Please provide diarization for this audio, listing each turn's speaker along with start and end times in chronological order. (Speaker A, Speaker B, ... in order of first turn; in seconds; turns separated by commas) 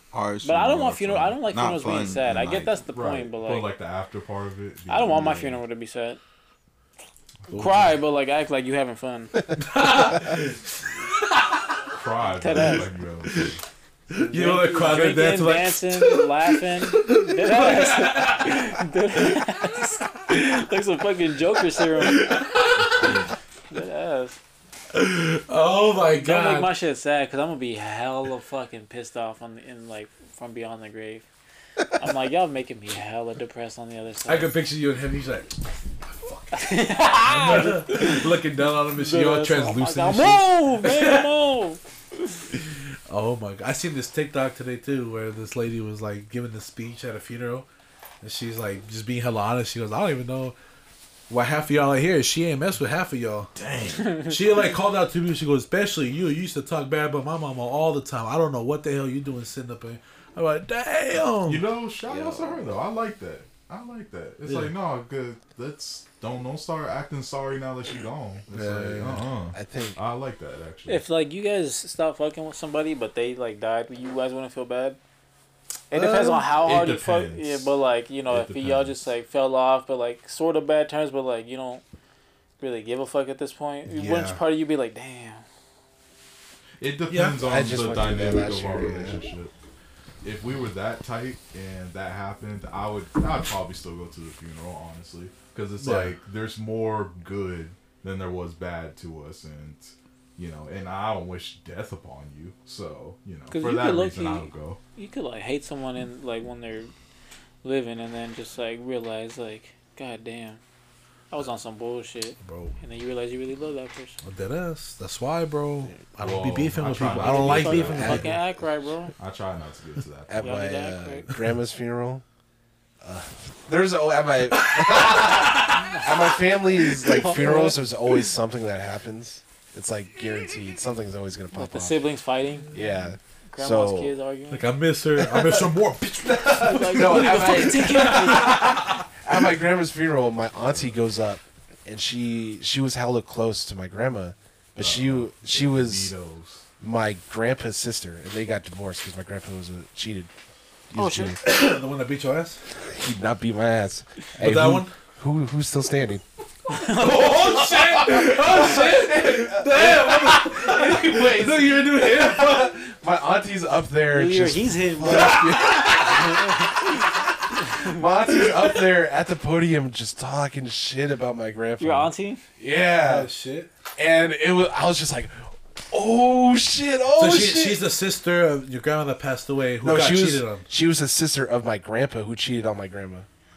Speaker A: 0.1-2.8, Speaker B: 0.4-3.7, Speaker C: 2.9-5.6, Speaker B: 4.9-6.2, Speaker D: 7.5-7.9, Speaker B: 7.5-9.4, Speaker D: 9.6-11.8, Speaker C: 11.9-13.6, Speaker B: 12.2-12.9, Speaker D: 13.3-13.6, Speaker D: 14.1-16.3, Speaker B: 14.2-23.1, Speaker D: 16.8-18.8, Speaker D: 22.0-23.2, Speaker B: 23.7-24.4, Speaker D: 24.9-26.7, Speaker B: 26.2-31.3, Speaker B: 32.0-34.6, Speaker D: 34.3-41.2, Speaker B: 36.5-41.8, Speaker D: 42.5-47.7, Speaker D: 48.2-50.5, Speaker D: 51.3-53.5, Speaker C: 53.5-54.4, Speaker D: 54.3-61.7, Speaker C: 61.4-71.0, Speaker E: 62.1-62.8, Speaker D: 64.5-64.7, Speaker D: 68.5-69.3, Speaker E: 69.5-70.0, Speaker B: 70.9-75.0, Speaker B: 75.9-81.8, Speaker D: 75.9-76.5, Speaker C: 76.6-77.7, Speaker C: 78.3-79.0, Speaker B: 82.6-85.5, Speaker D: 83.9-84.4, Speaker C: 86.8-89.5, Speaker D: 87.1-89.2, Speaker E: 87.4-89.2, Speaker C: 90.2-104.8, Speaker D: 95.8-96.2, Speaker B: 103.5-106.9, Speaker B: 107.6-110.6, Speaker B: 111.3-114.2, Speaker D: 112.4-112.8, Speaker D: 114.2-118.3, Speaker C: 116.2-118.4, Speaker B: 117.1-119.1, Speaker C: 119.2-120.7, Speaker E: 120.3-122.2, Speaker B: 120.4-121.3, Speaker E: 123.0-132.0, Speaker D: 124.5-125.8, Speaker B: 125.7-126.4, Speaker D: 126.8-127.7, Speaker B: 127.0-127.8, Speaker B: 131.5-132.7, Speaker E: 132.7-134.2, Speaker C: 132.8-133.1, Speaker B: 133.5-134.7, Speaker D: 134.5-139.0, Speaker E: 135.2-135.6, Speaker B: 136.6-138.7, Speaker E: 136.9-146.1, Speaker C: 144.8-146.7, Speaker E: 146.8-150.3, Speaker E: 150.9-151.4, Speaker B: 150.9-151.4, Speaker D: 151.4-152.8, Speaker E: 152.8-156.2, Speaker D: 154.4-154.9, Speaker B: 156.7-158.5, Speaker D: 157.0-162.8, Speaker E: 158.3-166.8, Speaker B: 164.1-165.6, Speaker D: 165.1-166.7, Speaker E: 167.5-173.3, Speaker B: 171.8-172.4, Speaker D: 173.0-173.7, Speaker E: 173.9-177.8, Speaker D: 177.2-180.7, Speaker E: 179.8-183.3